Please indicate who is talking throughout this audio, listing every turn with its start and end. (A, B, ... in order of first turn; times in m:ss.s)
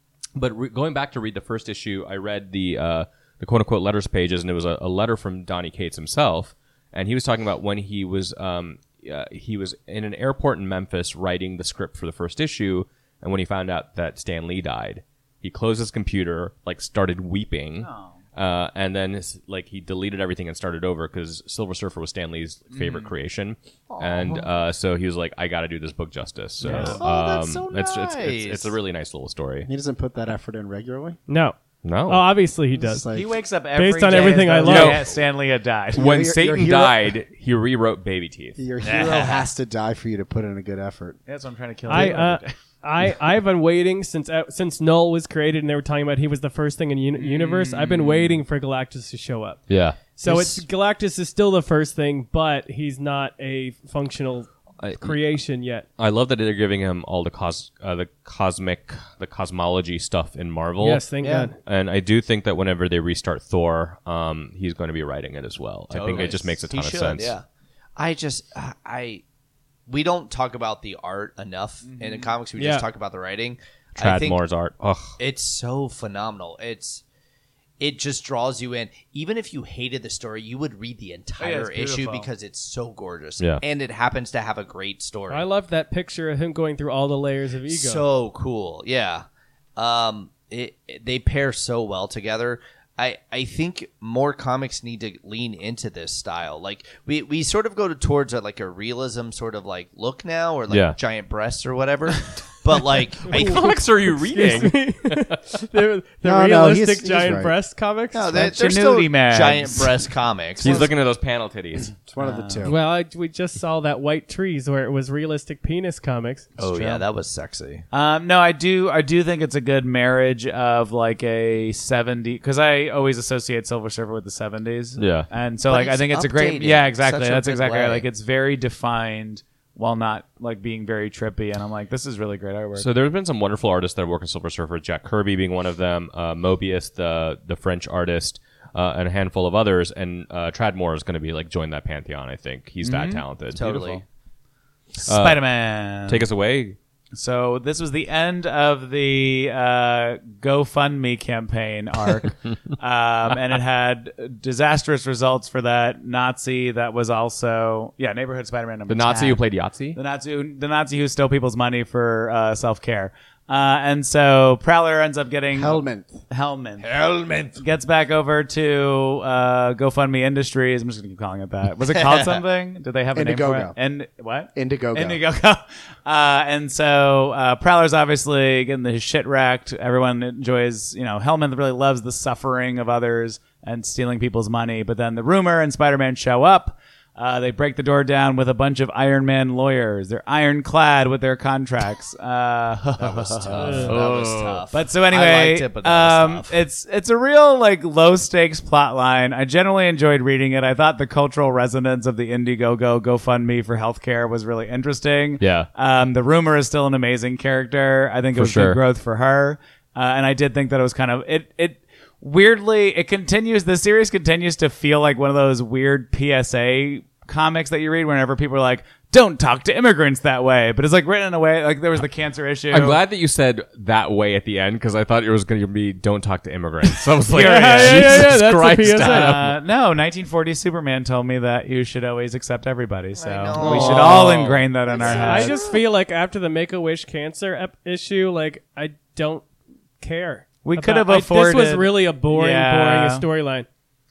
0:00.4-0:29.7 A
0:17.8-0:18.2 B
0:22.7-0:23.1 B
0:23.9-0:24.5 C
0:26.6-0:27.0 B
0:26.8-0:28.7 C
0:29.6-0:31.2 D
0:31.3-0:31.6 E
0:31.8-0:32.3 A
0:32.1-0:33.0 E
0:32.7-0:33.3 D
0:33.1-0:36.0 B
0:33.8-0:35.1 E
0:34.6-0:35.1 A
0:35.9-0:37.1 D
0:35.9-0:38.6 A
0:38.6-0:41.2 D
0:38.8-0:39.5 B
0:41.3-0:42.6 B
0:41.9-0:55.9 E
0:47.1-0:48.4 B
0:49.7-0:50.0 A
0:50.2-0:50.6 D
0:54.8-0:55.2 A
0:56.0-1:01.0 A
1:00.8-1:01.6 E
1:01.2-1:01.5 C
1:01.6-1:07.3 A
1:05.9-1:07.4 C
1:08.0-1:09.2 C
1:09.9-1:14.4 C
1:11.8-1:12.4 B
1:12.6-1:12.8 E
1:14.0-1:15.2 A
1:15.2-1:17.0 C
1:17.8-1:25.5 C
1:21.4-1:22.3 B
1:25.3-1:28.0 E
1:27.7-1:29.2 C
1:29.8-1:43.6 C
1:40.7-1:41.0 A
1:43.3-1:45.7 A
1:43.3-1:48.4 E
1:46.2-1:47.5 D
1:48.1-1:50.9 C
1:48.4-1:49.9 B
1:50.6-1:51.9 A
1:50.6-1:50.9 D
1:51.9-1:52.8 D
1:52.2-1:52.7 B
1:52.6-1:56.5 E
1:56.6-1:57.8 C
1:56.6-1:57.0 B
1:57.9-2:12.9 B
2:05.0-2:05.3 A
2:05.6-2:08.1 C
2:12.8-2:23.6 A
2:22.8-2:24.0 B
2:23.5-2:24.0 C
2:24.9-2:26.2 B
2:25.0-2:25.4 A
2:26.1-2:26.8 A
2:27.2-2:39.4 B
2:38.9-2:40.0 A
2:39.9-2:46.9 B
2:45.5-2:46.2 D
2:46.8-2:47.6 C
2:47.6-3:14.0 B
2:52.0-2:52.4 C
2:53.1-2:53.8 D
2:54.6-2:55.2 D
3:13.0-3:16.6 C
3:13.5-3:14.6 A
3:13.6-3:13.9 E
3:14.7-3:43.0 B
3:25.4-3:25.7 A
3:28.3-3:28.8 A
3:42.7-3:49.6 A
3:47.3-3:48.3 B
3:47.4-3:49.4 E
3:49.0-3:55.7 B
3:53.2-3:55.8 C
3:53.6-3:54.7 A
3:55.0-3:59.5 E
4:00.0-4:03.7 E
4:00.6-4:03.3 B